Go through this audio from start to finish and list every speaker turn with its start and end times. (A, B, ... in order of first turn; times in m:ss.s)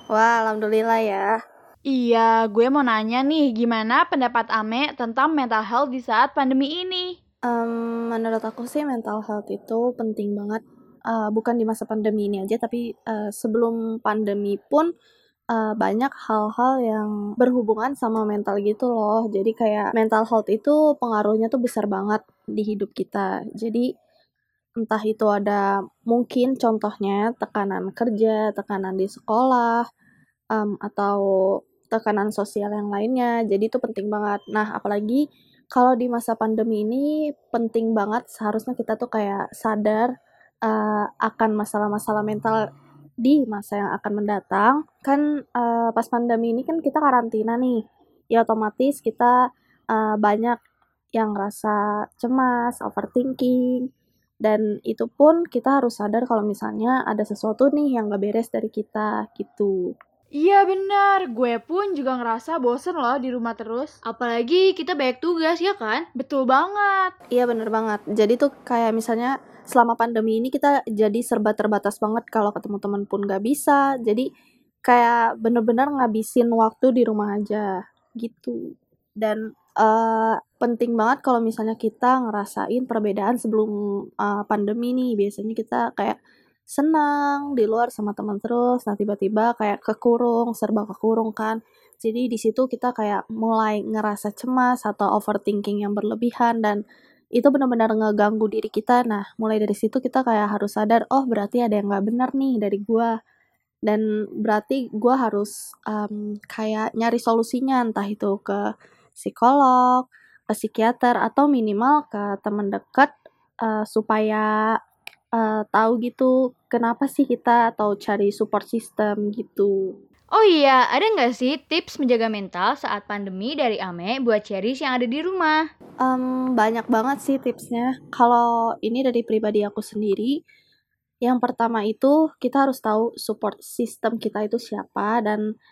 0:00.1-0:01.4 A
0:01.9-0:07.2 B
0:07.5-0:14.9 A
0:15.5-0:23.9 A
0:24.8-0:29.8 A
0:30.5-0:31.2 A
0:31.9-0:35.2 A
0:35.7-0:40.1 A
0:40.7-0:42.6 A
0:43.2-0:47.8 A
0:48.3-0:49.3 A
0:49.9-0:50.6 A
0:51.2-0:53.8 A
0:54.4-0:59.7 A
1:00.4-1:03.9 B
1:04.0-1:06.0 C
1:06.2-1:07.1 B
1:07.3-1:14.2 A
1:14.9-1:17.7 A
1:18.2-1:18.6 A
1:19.2-1:26.2 A
1:26.7-1:36.8 A
1:37.4-1:43.1 A
1:43.9-1:48.6 A
1:49.2-1:53.1 A
1:53.6-1:54.5 A
1:55.4-1:59.7 A
2:00.3-2:05.6 C
2:06.0-2:10.3 A
2:11.2-2:15.4 A